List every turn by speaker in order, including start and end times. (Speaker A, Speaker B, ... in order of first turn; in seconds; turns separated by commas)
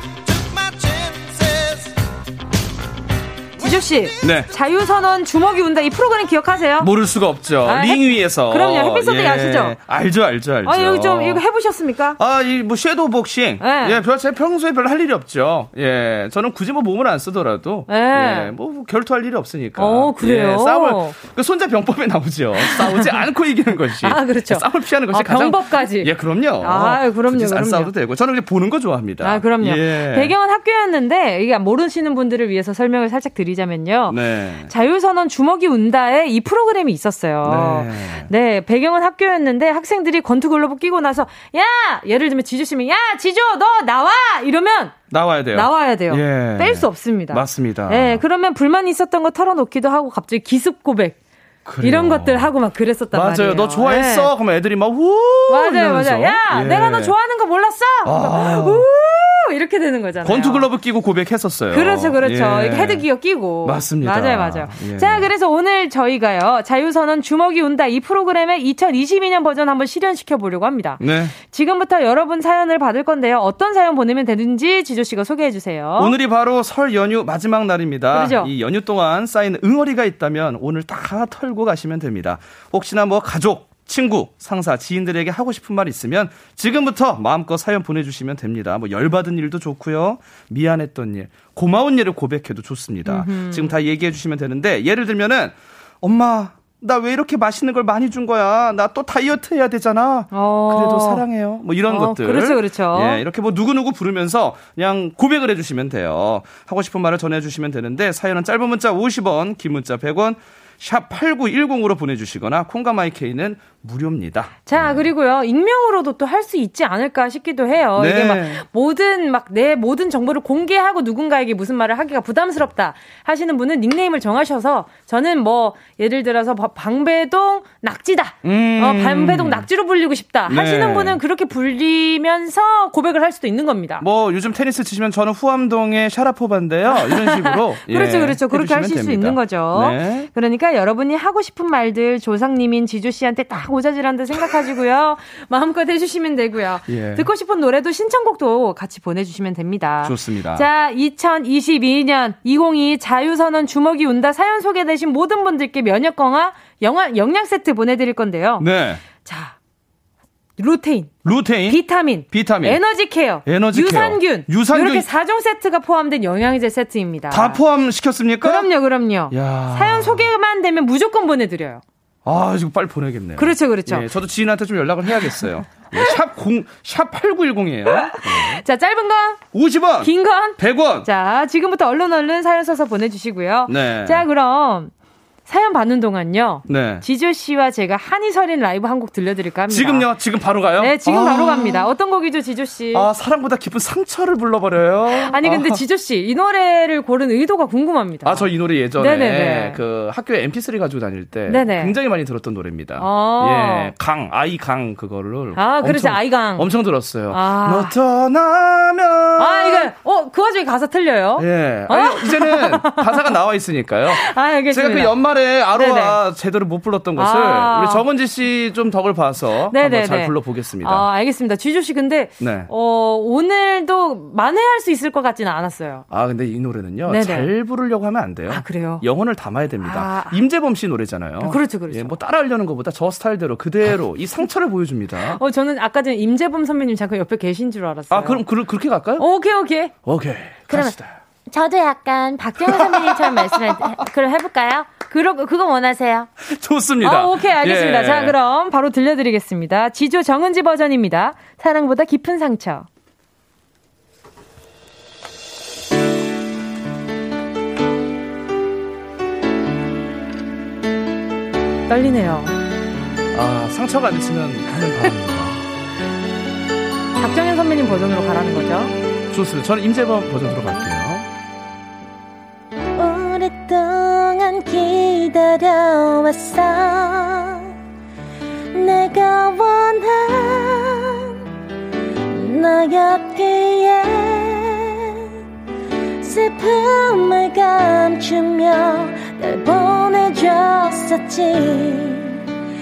Speaker A: 3.6-6.9, Speaker B: 4.2-4.5, Speaker B: 6.8-11.4, Speaker A: 7.7-9.8, Speaker A: 10.7-12.2, Speaker B: 12.2-30.3, Speaker A: 13.6-14.0, Speaker A: 17.9-18.5, Speaker A: 19.8-21.2, Speaker A: 22.6-23.2, Speaker A: 24.0-27.9, Speaker A: 29.2-45.0, Speaker B: 34.1-34.7, Speaker B: 37.4-38.3, Speaker B: 45.1-48.2, Speaker A: 45.5-51.2, Speaker B: 51.6-52.5, Speaker A: 51.8-54.3, Speaker B: 53.1-57.1, Speaker A: 55.5-60.7, Speaker B: 58.0-58.9, Speaker B: 60.2-63.0, Speaker A: 61.7-76.2, Speaker B: 63.6-65.3, Speaker B: 71.0-71.3, Speaker B: 76.0-115.1, Speaker A: 78.1-78.5, Speaker A: 93.0-93.7, Speaker A: 100.3-101.2, Speaker A: 101.9-103.2, Speaker A: 114.7-134.1, Speaker B: 118.0-118.6, Speaker B: 128.4-129.7, Speaker B: 130.5-131.2, Speaker B: 134.0-140.3, Speaker A: 136.9-158.7, Speaker B: 146.9-147.3, Speaker B: 150.0-150.7, Speaker B: 158.6-159.0, Speaker A: 159.2-159.6, Speaker A: 160.6-167.6, Speaker B: 161.2-162.8, Speaker B: 163.4-165.1, Speaker B: 167.3-168.7, Speaker A: 168.4-171.8, Speaker B: 169.3-170.3, Speaker B: 172.2-178.6, Speaker A: 173.4-174.1, Speaker A: 178.0-179.4, Speaker B: 179.5-181.1, Speaker A: 180.0-184.9, Speaker B: 183.7-184.2, Speaker A: 185.5-190.1, Speaker B: 186.7-187.1, Speaker B: 189.7-191.9, Speaker A: 190.8-193.1, Speaker B: 192.9-195.8, Speaker A: 195.1-199.8, Speaker B: 198.2-209.9, Speaker A: 201.5-202.0, Speaker A: 203.0-203.9, Speaker A: 205.6-206.7, Speaker A: 207.3-207.9, Speaker A: 209.4-213.2, Speaker B: 211.4-221.1, Speaker A: 214.1-215.1, Speaker A: 215.7-216.2, Speaker A: 217.2-218.1, Speaker A: 219.7-226.1, Speaker B: 222.4-222.7, Speaker B: 226.1-235.4, Speaker A: 227.1-227.5, Speaker A: 228.5-229.0, Speaker A: 229.8-230.4, Speaker A: 231.4-232.2, Speaker A: 235.3-238.4, Speaker B: 238.1-239.3, Speaker A: 239.2-239.9, Speaker B: 240.1-241.2, Speaker A: 240.7-240.9, Speaker A: 241.5-246.3, Speaker B: 242.6-244.0, Speaker B: 246.4-248.4, Speaker A: 247.0-252.9, Speaker A: 261.9-262.5, Speaker B: 263.3-265.6, Speaker A: 267.2-268.9, Speaker B: 269.3-271.3, Speaker C: 273.0-277.6, Speaker C: 278.7-281.3, Speaker C: 282.3-285.2, Speaker C: 286.2-292.4